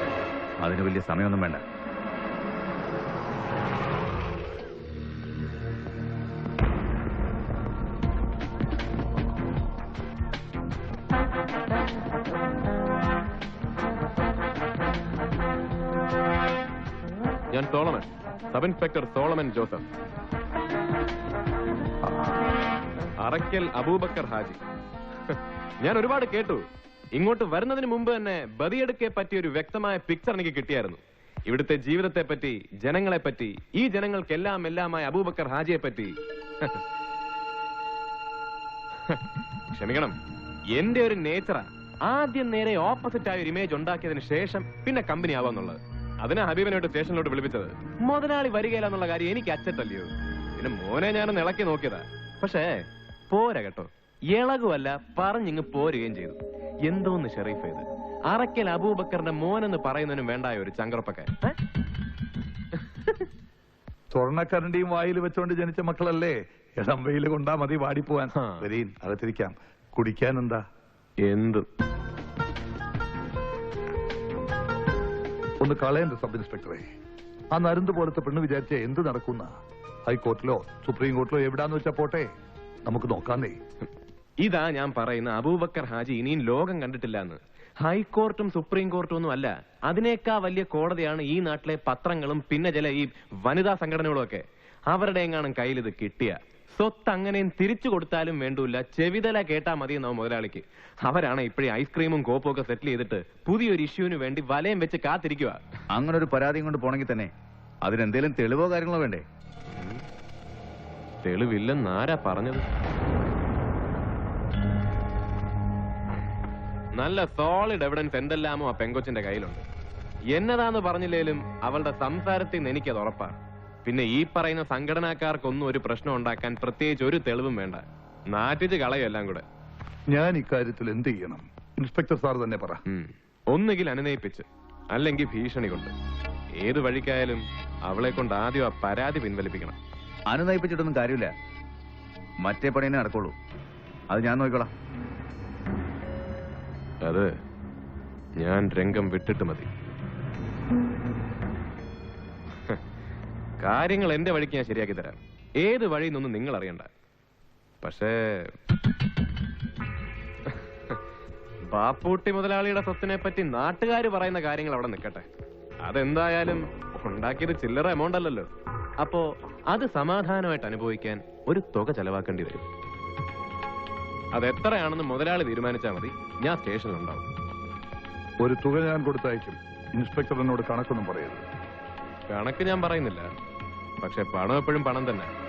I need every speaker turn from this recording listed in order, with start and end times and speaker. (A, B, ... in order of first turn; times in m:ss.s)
0:00.6-0:01.6 A
0:17.5-0:19.8 B
0:23.2-0:24.6 B
0:25.3-0:26.6 B
0:27.2-0:36.8 B
0:39.7-0:40.2 B
0:40.7-0:52.8 B
0:53.3-1:01.5 B
1:04.1-1:10.6 C
1:11.2-1:11.7 B
1:15.6-1:16.8 C
1:17.5-1:19.5 C
1:20.1-1:22.3 C
1:22.9-1:23.6 C
1:24.4-1:45.6 B
1:45.9-1:47.3 A
1:47.8-1:49.2 A
1:49.7-1:50.0 B
1:51.2-1:52.6 B
1:57.0-1:59.6 B
2:00.3-2:09.4 B
2:10.1-2:12.8 C
2:12.9-2:15.9 B
2:16.6-2:19.8 B
2:20.3-2:21.3 A
2:22.4-2:23.4 A
2:24.1-2:24.7 A
2:27.0-2:27.3 B
2:28.4-2:29.7 B
2:33.6-2:36.9 B
2:37.8-2:38.5 B
2:40.5-2:41.0 B
2:41.7-2:45.2 B
2:45.8-2:48.5 B
2:49.0-2:52.6 B
2:54.3-2:57.2 B
2:58.4-3:01.4 C
3:02.3-3:03.3 B
3:04.0-3:05.3 B